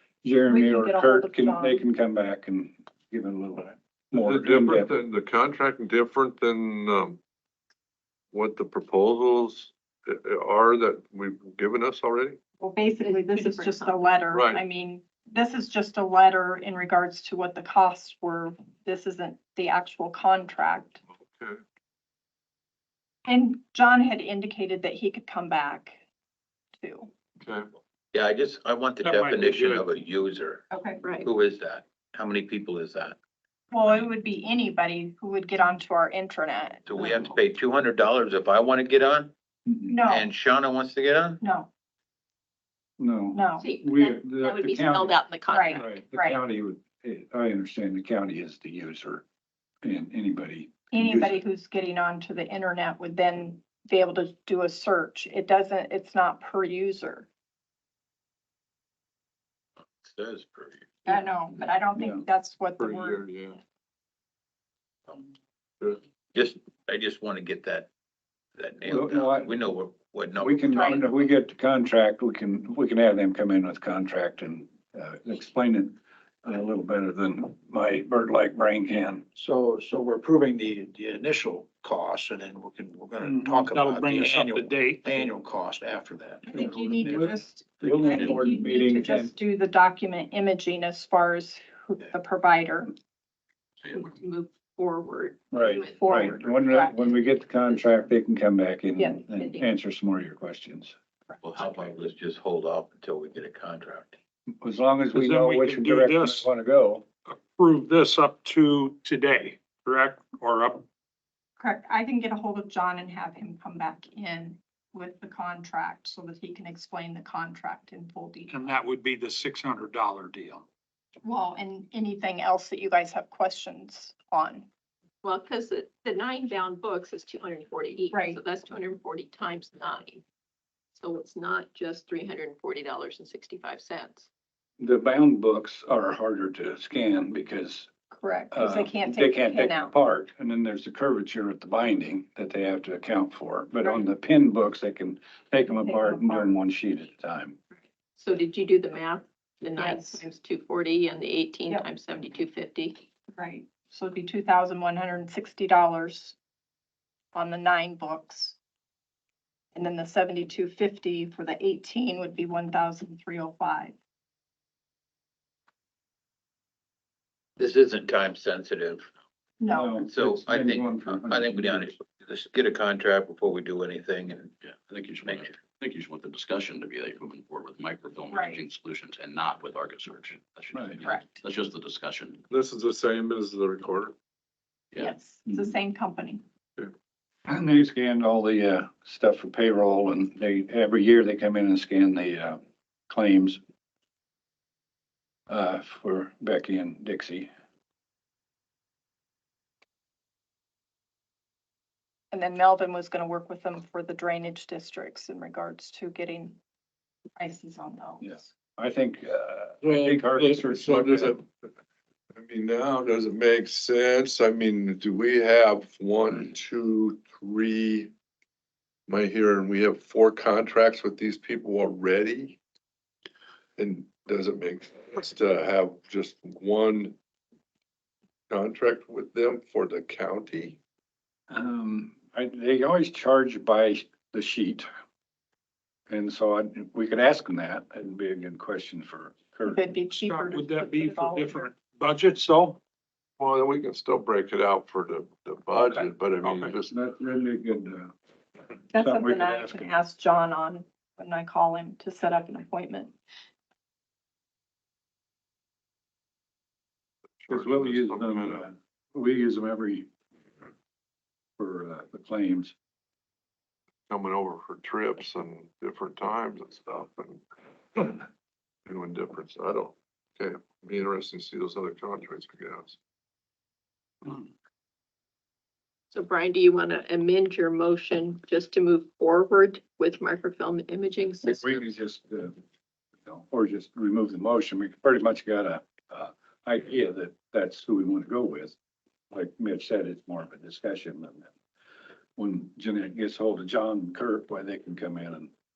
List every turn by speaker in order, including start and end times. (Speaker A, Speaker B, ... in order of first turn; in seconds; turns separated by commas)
Speaker A: 0.2-4.9, Speaker B: 0.5-1.8, Speaker C: 4.1-7.2, Speaker C: 8.3-12.4, Speaker B: 12.6-21.0, Speaker D: 13.0-14.1, Speaker C: 14.3-14.6, Speaker C: 21.2-21.6, Speaker B: 23.3-26.0, Speaker B: 26.8-27.1, Speaker C: 27.4-27.7, Speaker E: 28.1-30.7, Speaker F: 29.0-29.9, Speaker B: 30.7-31.0, Speaker D: 31.0-31.3, Speaker E: 31.2-33.1, Speaker B: 33.7-37.2, Speaker E: 36.9-39.3, Speaker A: 39.7-39.9, Speaker B: 39.9-40.3, Speaker E: 40.0-41.4, Speaker B: 41.4-41.7, Speaker A: 43.0-45.2, Speaker B: 43.3-43.7, Speaker D: 43.6-45.9, Speaker B: 45.5-46.4, Speaker A: 45.7-49.2, Speaker A: 49.8-51.4, Speaker B: 50.9-57.3, Speaker E: 60.0-61.0, Speaker B: 61.0-63.2, Speaker A: 62.0-62.2, Speaker C: 62.8-63.6, Speaker E: 66.3-67.9, Speaker E: 68.5-71.1, Speaker A: 68.9-69.6, Speaker A: 70.4-79.2, Speaker B: 70.7-71.0, Speaker G: 79.3-87.2, Speaker F: 83.2-85.3, Speaker B: 86.5-92.9, Speaker A: 87.2-89.3, Speaker D: 93.9-98.0, Speaker A: 95.5-100.9, Speaker B: 95.9-96.9, Speaker B: 99.0-99.6, Speaker E: 101.4-104.2, Speaker A: 104.6-107.0, Speaker F: 105.1-106.5, Speaker F: 107.2-110.8, Speaker B: 111.6-118.7, Speaker F: 118.5-120.6, Speaker B: 121.2-124.7, Speaker D: 125.2-130.2, Speaker B: 128.1-128.4, Speaker D: 130.9-134.3, Speaker A: 134.8-137.9, Speaker B: 138.1-139.9, Speaker A: 138.5-147.6, Speaker B: 143.8-144.1, Speaker B: 145.7-146.5, Speaker D: 148.1-153.0, Speaker B: 149.8-150.2, Speaker B: 153.3-156.3, Speaker B: 157.3-158.6, Speaker B: 159.7-163.9, Speaker E: 167.6-169.1, Speaker B: 169.6-170.0, Speaker A: 169.7-171.9, Speaker E: 170.0-174.5, Speaker H: 174.6-182.4, Speaker E: 175.2-175.5, Speaker B: 178.3-178.6, Speaker A: 180.7-181.0, Speaker B: 181.0-181.4, Speaker C: 182.5-184.1, Speaker B: 185.0-186.4, Speaker A: 187.5-193.6, Speaker A: 195.5-197.5, Speaker B: 202.3-206.6, Speaker B: 207.4-208.5, Speaker A: 208.2-211.4, Speaker C: 209.8-211.5, Speaker C: 212.3-218.1, Speaker C: 219.1-222.6, Speaker C: 223.8-227.2, Speaker C: 228.5-230.8, Speaker A: 231.5-234.9, Speaker A: 236.1-239.9, Speaker B: 239.7-241.7, Speaker F: 240.2-242.8, Speaker C: 243.4-246.9, Speaker F: 246.4-246.7, Speaker A: 246.9-248.1, Speaker B: 248.9-253.1, Speaker A: 248.9-249.9, Speaker C: 257.4-258.7, Speaker A: 257.5-260.1, Speaker A: 261.6-262.7, Speaker C: 264.1-267.4, Speaker C: 267.9-268.2, Speaker C: 268.9-273.0, Speaker D: 276.1-281.9, Speaker A: 281.4-282.5, Speaker A: 283.2-288.8, Speaker A: 289.3-291.5, Speaker A: 292.4-295.5